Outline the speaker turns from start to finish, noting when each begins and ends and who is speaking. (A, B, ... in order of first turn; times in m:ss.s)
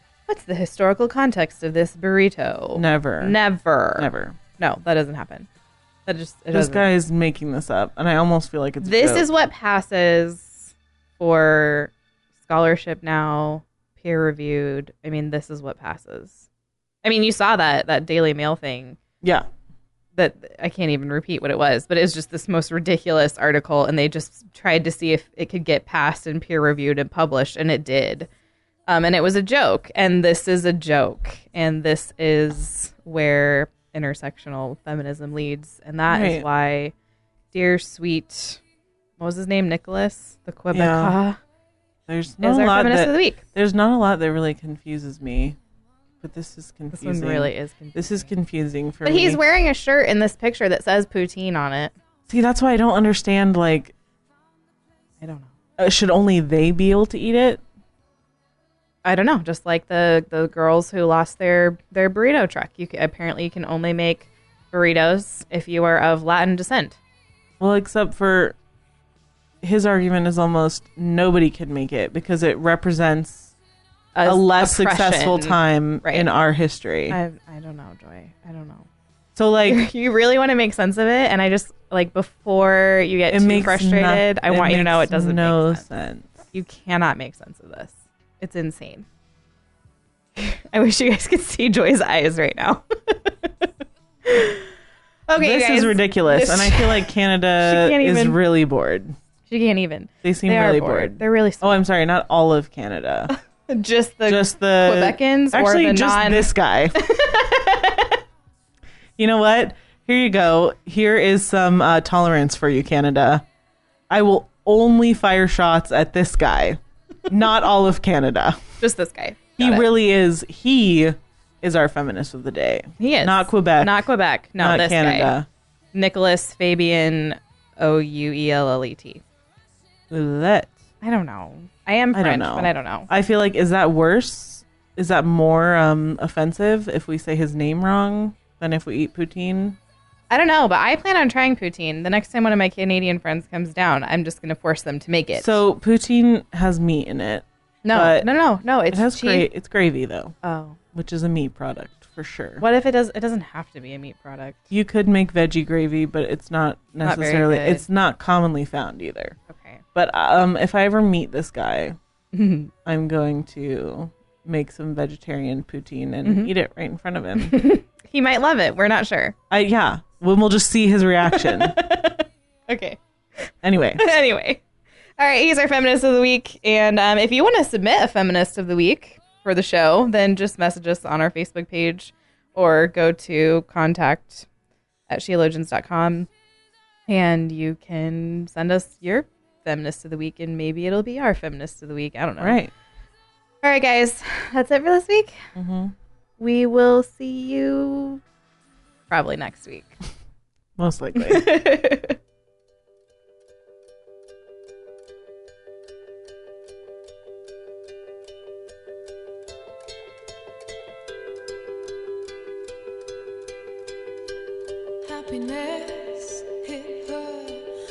0:00.3-0:04.1 A
0:02.7-0:03.4 B
0:04.0-0:04.4 B
0:04.6-0:05.5 A
0:06.0-0:06.9 A
0:06.5-0:09.3 B
0:08.8-0:11.9 A
0:12.4-0:16.5 A
0:17.0-0:19.0 A
0:19.2-0:19.5 B
0:20.1-0:28.3 A
0:28.9-0:36.9 A
0:36.1-0:36.4 B
0:37.5-0:38.6 A
0:39.2-0:41.4 A
0:40.7-0:41.2 B
0:42.1-0:45.6 B
0:42.4-0:43.4 A
0:46.2-0:49.4 B
0:46.9-0:48.3 A
0:49.0-0:51.9 A
0:52.3-0:53.9 B
0:55.2-0:55.5 A
0:55.8-0:57.6 B
0:59.0-1:07.0 A
1:07.6-1:08.6 B
1:09.6-1:13.5 B
1:14.1-1:16.3 A
1:14.2-1:17.2 B
1:17.1-1:18.9 A
1:19.4-1:19.8 B
1:19.7-1:25.8 A
1:23.3-1:26.4 B
1:26.5-1:29.0 A
1:30.4-1:33.5 A
1:34.2-1:34.7 A
1:35.3-1:38.4 A
1:35.4-1:39.1 B
1:39.5-1:41.8 A
1:40.2-1:43.3 B
1:43.7-1:48.2 A
1:44.3-1:47.0 B
1:49.2-1:53.4 B
1:54.1-1:58.6 B
1:58.8-1:59.9 A
1:59.6-2:04.0 B
2:03.0-2:05.3 A
2:04.6-2:05.5 B
2:05.9-2:09.2 A
2:10.1-2:10.7 B
2:11.0-2:13.1 A
2:12.1-2:19.8 B
2:20.3-2:25.6 A
2:25.4-2:28.3 B
2:27.8-2:29.5 A
2:28.9-2:30.3 B
2:30.4-2:30.8 A
2:30.9-2:32.6 B
2:32.6-2:34.6 A
2:34.7-2:39.4 B
2:37.0-2:37.8 A
2:39.5-2:39.8 A
2:39.9-2:42.0 B
2:42.3-2:42.7 A
2:42.8-2:47.6 B
2:46.2-2:46.5 A
2:47.4-2:49.3 A
2:49.5-2:51.8 B
2:51.3-2:54.6 A
2:53.6-2:54.0 B
2:55.2-3:04.5 A
3:05.1-3:06.3 A
3:07.1-3:12.6 A
3:12.4-3:12.7 B
3:13.6-3:15.4 A
3:15.5-3:15.9 B
3:16.4-3:18.2 A
3:19.1-3:19.9 A
3:20.8-3:21.6 B
3:21.2-3:22.2 A
3:35.1-3:37.7 C